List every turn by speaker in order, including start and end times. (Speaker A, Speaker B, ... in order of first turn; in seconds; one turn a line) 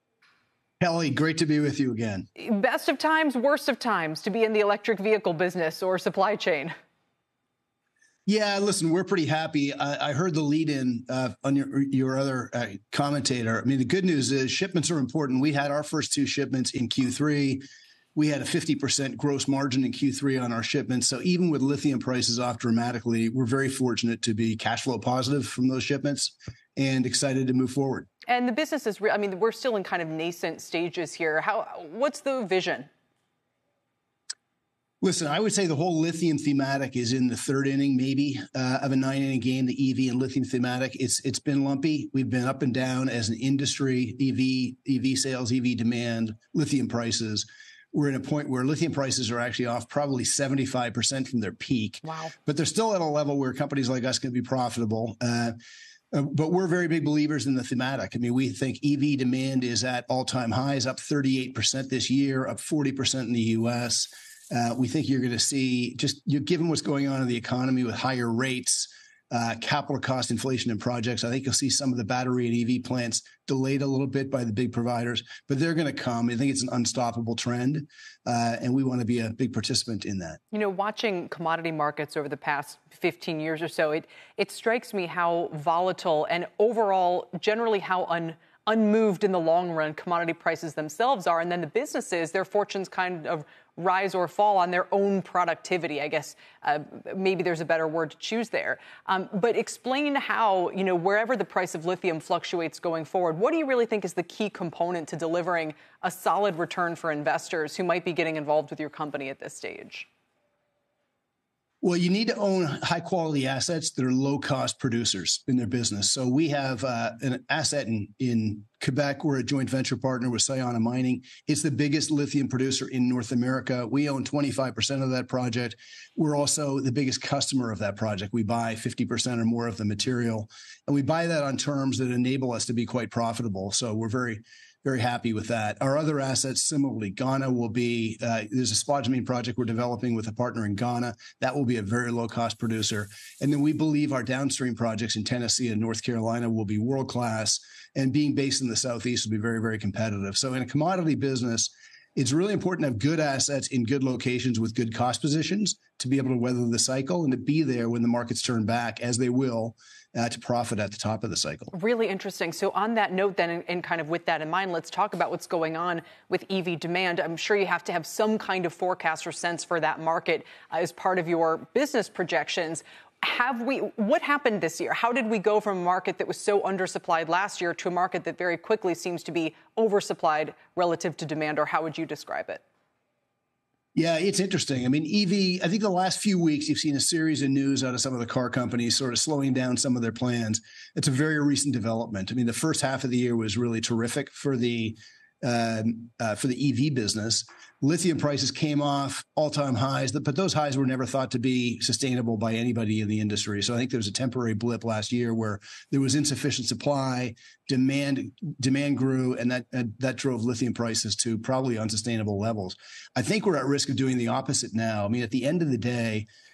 Speaker A: 0.8-2.3
Speaker B: 2.4-6.8
Speaker A: 8.3-17.6
Speaker A: 18.1-28.1
Speaker B: 28.3-32.9
Speaker A: 35.0-55.6
Speaker B: 52.0-52.3
Speaker A: 56.1-80.4
Speaker B: 80.5-110.1
Speaker A: 111.8-161.7
Speaker B: 161.7-182.6
Speaker A: 183.9-216.3